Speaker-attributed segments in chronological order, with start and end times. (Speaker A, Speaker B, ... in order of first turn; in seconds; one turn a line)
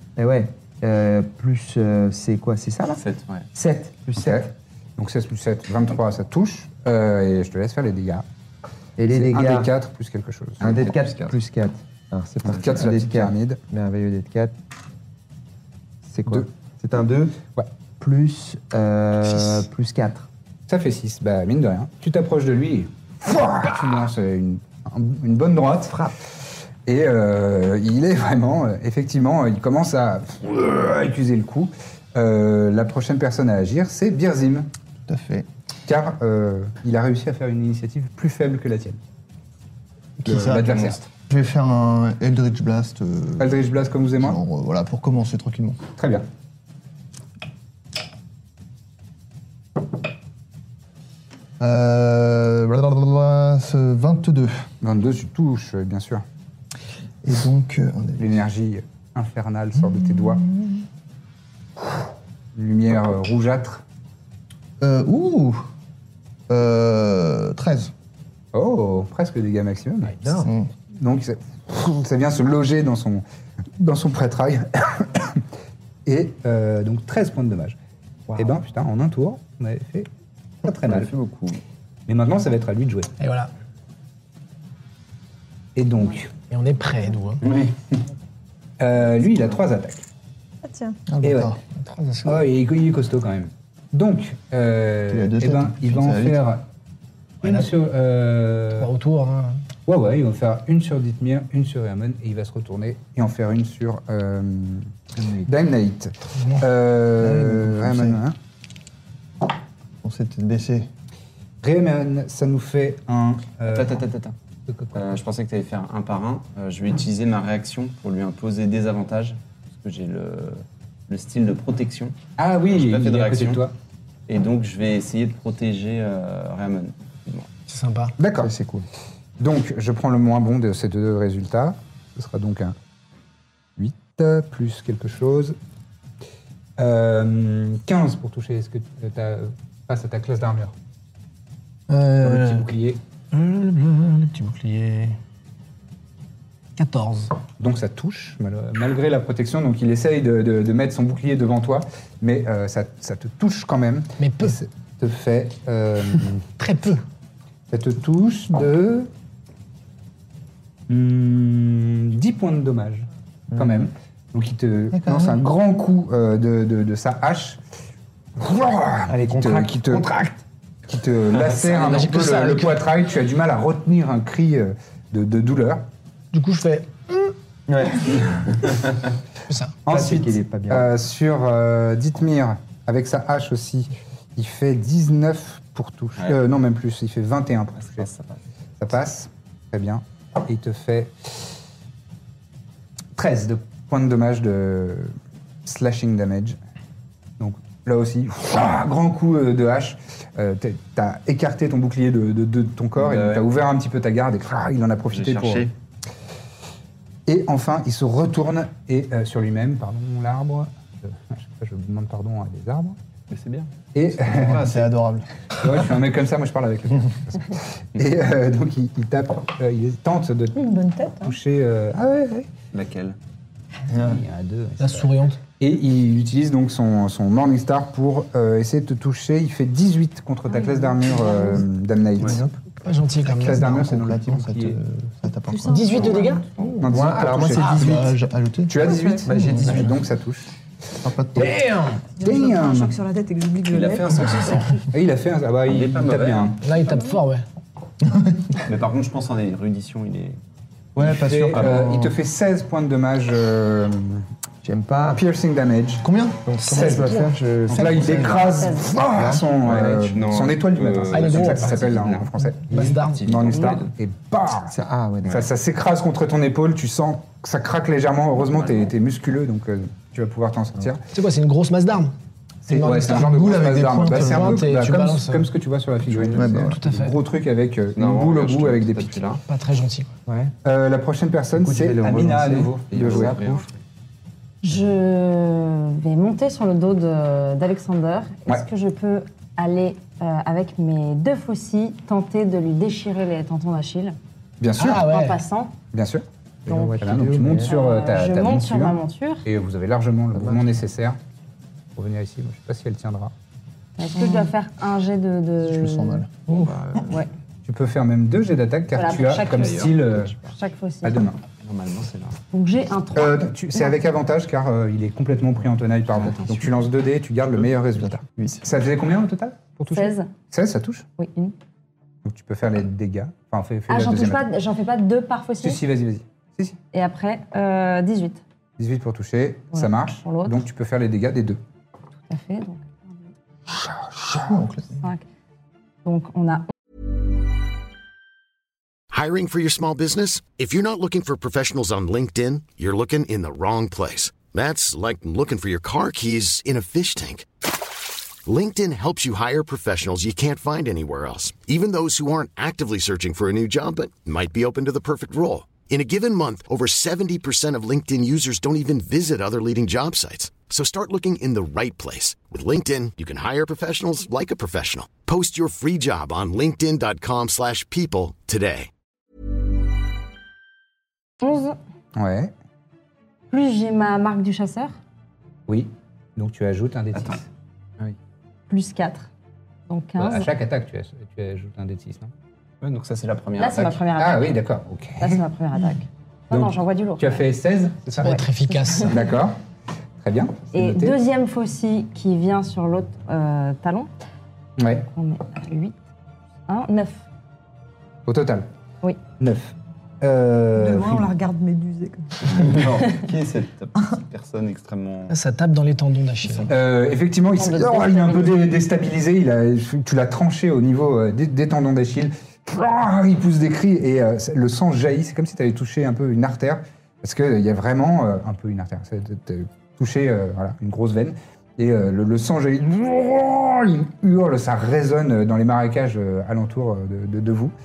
Speaker A: 0.1-4.5
Speaker B: 2.9-3.5
Speaker C: 4.2-8.2
Speaker A: 9.0-9.7
Speaker C: 9.1-10.8
Speaker A: 10.6-14.5
Speaker B: 10.6-11.3
Speaker C: 12.4-13.6
Speaker C: 16.1-16.5
Speaker A: 16.2-17.4
Speaker A: 18.0-20.3
Speaker C: 20.7-26.0
Speaker C: 26.9-34.7
Speaker D: 35.0-35.5
Speaker C: 35.9-39.0
Speaker D: 40.2-45.8
Speaker C: 40.2-41.0
Speaker C: 43.4-44.4
Speaker C: 46.0-46.2
Speaker D: 51.6-54.7
Speaker C: 54.8-56.2
Speaker D: 57.2-58.4
Speaker C: 58.2-60.4
Speaker D: 59.8-60.7
Speaker C: 62.5-63.8
Speaker D: 64.8-65.7
Speaker D: 66.5-67.9
Speaker C: 68.5-73.2
Speaker A: 70.2-70.5
Speaker D: 70.4-70.7
Speaker C: 73.8-75.4
Speaker C: 76.0-77.8
Speaker C: 78.3-80.1
Speaker C: 80.6-81.1
Speaker A: 80.9-81.5
Speaker C: 82.1-83.1
Speaker E: 83.2-83.5
Speaker C: 85.8-86.3
Speaker E: 86.5-87.4
Speaker B: 87.4-87.7
Speaker C: 88.8-90.0
Speaker F: 90.6-91.0
Speaker D: 91.0-91.6
Speaker C: 91.2-91.6
Speaker E: 91.8-92.4
Speaker C: 92.2-96.6
Speaker D: 95.1-96.4
Speaker C: 97.4-98.9
Speaker E: 97.4-97.7
Speaker E: 98.7-99.6
Speaker C: 99.8-104.9
Speaker C: 105.4-108.3
Speaker E: 106.3-106.6
Speaker D: 107.2-108.2
Speaker D: 110.0-110.9
Speaker C: 111.6-114.0
Speaker B: 113.7-114.3
Speaker C: 114.7-115.2
Speaker B: 114.9-122.2
Speaker C: 122.4-123.7
Speaker B: 122.7-123.6
Speaker B: 124.3-127.5
Speaker E: 127.7-128.1
Speaker C: 128.2-128.5
Speaker A: 128.4-128.9
Speaker C: 129.4-132.8
Speaker C: 133.8-135.6
Speaker C: 136.8-140.7
Speaker E: 141.9-142.7
Speaker C: 142.2-143.0
Speaker E: 143.3-145.2
Speaker E: 146.8-147.3
Speaker C: 147.6-156.4
Speaker E: 154.2-154.6
Speaker E: 156.6-157.0
Speaker C: 157.7-159.1
Speaker C: 160.9-167.6
Speaker A: 163.5-163.9
Speaker D: 164.9-165.4
Speaker C: 168.4-170.1
Speaker A: 169.1-170.3
Speaker C: 170.9-175.8
Speaker E: 171.8-172.8
Speaker E: 176.3-177.3
Speaker A: 177.7-178.2
Speaker E: 179.5-179.8
Speaker C: 179.8-188.1
Speaker A: 179.9-180.9
Speaker B: 187.8-188.4
Speaker C: 188.8-191.5
Speaker C: 193.2-196.6
Speaker C: 197.4-205.7
Speaker B: 203.0-203.5
Speaker B: 205.1-205.7
Speaker C: 207.3-213.0
Speaker B: 213.3-213.7
Speaker C: 213.9-214.8
Speaker D: 214.2-215.3
Speaker B: 214.3-214.8
Speaker C: 215.6-220.5
Speaker F: 220.5-221.4
Speaker C: 221.2-222.5
Speaker B: 222.7-223.2
Speaker D: 223.9-224.2
Speaker C: 223.9-232.4
Speaker E: 224.8-225.4
Speaker D: 232.2-232.7
Speaker E: 232.8-233.7
Speaker D: 233.2-237.1
Speaker C: 233.3-234.8
Speaker F: 235.5-236.5
Speaker E: 235.7-236.5
Speaker C: 236.8-238.0
Speaker A: 236.8-238.0
Speaker D: 237.6-239.9
Speaker E: 237.6-237.9
Speaker C: 238.7-240.5
Speaker F: 238.8-239.2
Speaker A: 239.2-240.0
Speaker D: 241.0-241.6
Speaker F: 242.1-244.6
Speaker C: 242.2-242.9
Speaker B: 243.6-244.8
Speaker C: 244.9-246.6
Speaker B: 245.7-246.6
Speaker E: 246.6-247.4
Speaker D: 248.1-248.6
Speaker B: 248.7-250.4
Speaker D: 250.9-252.2
Speaker C: 251.0-254.3
Speaker B: 251.5-251.8
Speaker A: 254.6-255.2
Speaker C: 255.1-256.1
Speaker D: 256.0-257.0
Speaker A: 256.4-258.5
Speaker C: 256.7-264.7
Speaker D: 257.8-258.4
Speaker G: 258.6-258.9
Speaker A: 259.1-259.5
Speaker B: 259.6-262.3
Speaker E: 261.1-261.9
Speaker E: 262.6-263.3
Speaker B: 263.2-263.9
Speaker A: 264.7-265.5
Speaker C: 265.3-271.0
Speaker B: 268.5-268.9
Speaker E: 271.1-272.1
Speaker E: 272.7-273.3
Speaker C: 272.7-279.2
Speaker D: 273.0-274.7
Speaker E: 274.0-275.5
Speaker B: 276.1-276.4
Speaker D: 276.3-276.8
Speaker E: 276.6-277.2
Speaker B: 277.9-279.4
Speaker E: 279.5-280.1
Speaker A: 280.3-280.5
Speaker C: 280.6-283.4
Speaker A: 281.6-283.6
Speaker B: 282.9-283.7
Speaker G: 284.6-294.2
Speaker C: 294.6-295.1
Speaker E: 294.8-295.4
Speaker G: 294.9-295.7
Speaker C: 295.9-296.2
Speaker A: 296.6-297.8
Speaker G: 296.7-297.0
Speaker C: 296.9-301.2
Speaker G: 297.6-299.4
Speaker A: 300.3-300.8
Speaker C: 301.9-303.3
Speaker G: 304.0-306.2
Speaker F: 304.2-304.5
Speaker D: 305.6-306.4
Speaker B: 306.5-307.2
Speaker C: 307.6-310.4
Speaker G: 308.9-311.3
Speaker B: 309.0-310.5
Speaker C: 311.0-311.4
Speaker B: 311.6-312.4
Speaker G: 312.5-313.9
Speaker C: 313.1-321.1
Speaker B: 316.1-316.7
Speaker D: 317.9-318.7
Speaker G: 319.9-320.3
Speaker G: 321.2-321.5
Speaker C: 322.2-324.4
Speaker G: 323.9-325.8
Speaker C: 325.6-326.8
Speaker G: 326.9-328.4
Speaker C: 328.8-331.6
Speaker G: 329.7-330.6
Speaker G: 332.3-333.1
Speaker D: 334.3-335.0
Speaker G: 335.0-335.2
Speaker G: 336.0-336.6
Speaker H: 339.1-347.5
Speaker H: 348.4-368.9
Speaker G: 371.4-371.8
Speaker C: 372.1-372.5
Speaker G: 373.5-374.9
Speaker C: 375.7-377.4
Speaker B: 377.1-377.4
Speaker G: 378.7-379.3
Speaker G: 379.9-380.5
Speaker C: 380.2-382.3
Speaker B: 382.8-384.0
Speaker G: 383.6-384.6
Speaker C: 384.2-385.4
Speaker G: 385.2-387.4
Speaker C: 386.5-388.4
Speaker E: 388.1-389.2
Speaker G: 388.2-389.1
Speaker C: 389.0-389.6
Speaker C: 390.2-391.2
Speaker G: 390.7-394.1
Speaker C: 394.8-395.1
Speaker G: 395.1-396.0
Speaker G: 396.7-397.2
Speaker C: 398.2-398.7
Speaker C: 399.4-401.3
Speaker F: 400.7-402.8
Speaker B: 402.4-405.4
Speaker E: 405.3-406.7
Speaker C: 406.7-427.7
Speaker G: 407.6-408.7